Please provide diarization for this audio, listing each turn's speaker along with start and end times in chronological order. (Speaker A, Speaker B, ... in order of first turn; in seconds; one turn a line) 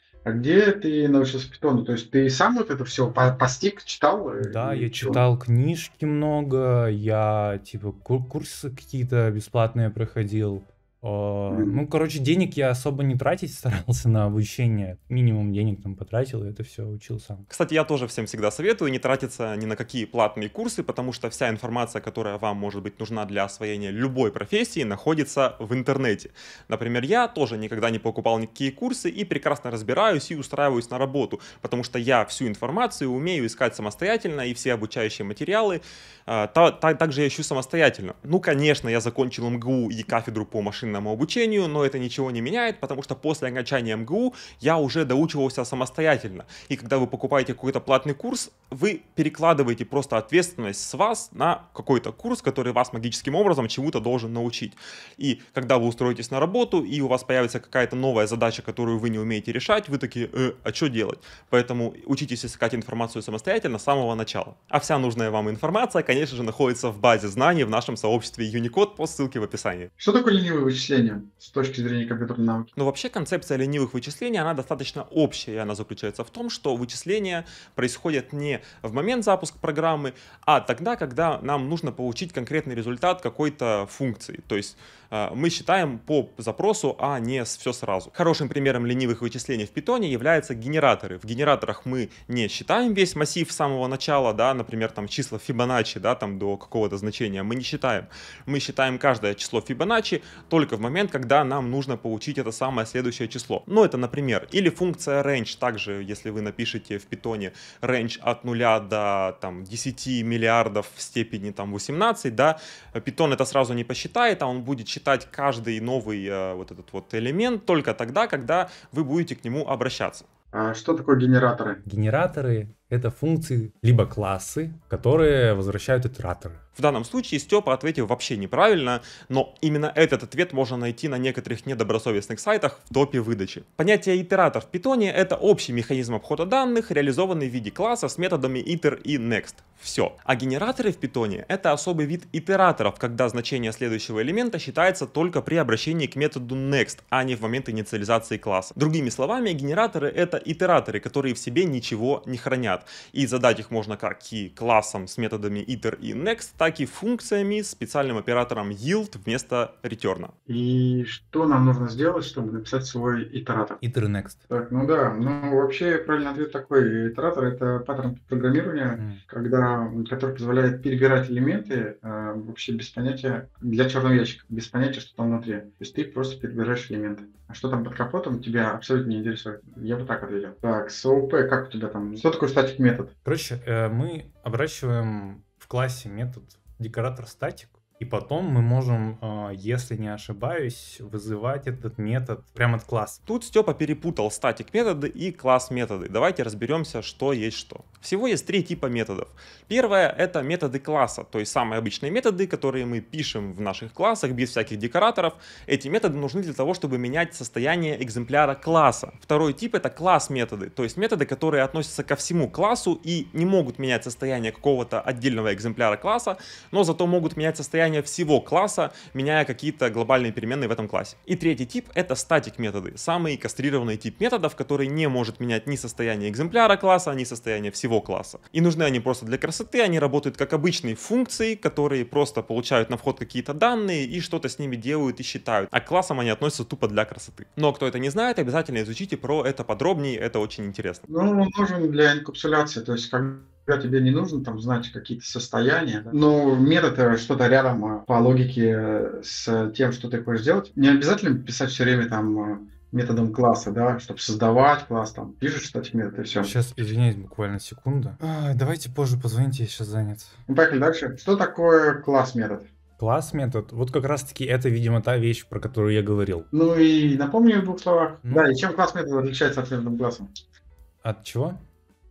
Speaker A: 0.2-5.2
Speaker B: 4.4-17.5
Speaker A: 11.5-11.8
Speaker C: 17.5-69.9
Speaker A: 70.0-72.7
Speaker C: 72.8-120.3
Speaker A: 120.5-121.8
Speaker B: 121.8-126.6
Speaker C: 126.8-160.3
Speaker A: 160.5-163.8
Speaker B: 163.8-164.4
Speaker A: 164.5-183.1
Speaker B: 183.2-193.2
Speaker C: 193.3-241.1
Speaker A: 241.1-256.5
Speaker B: 256.4-260.4
Speaker A: 260.5-262.7
Speaker B: 263.0-266.5
Speaker A: 266.5-270.3
Speaker B: 268.2-268.5
Speaker B: 271.0-271.6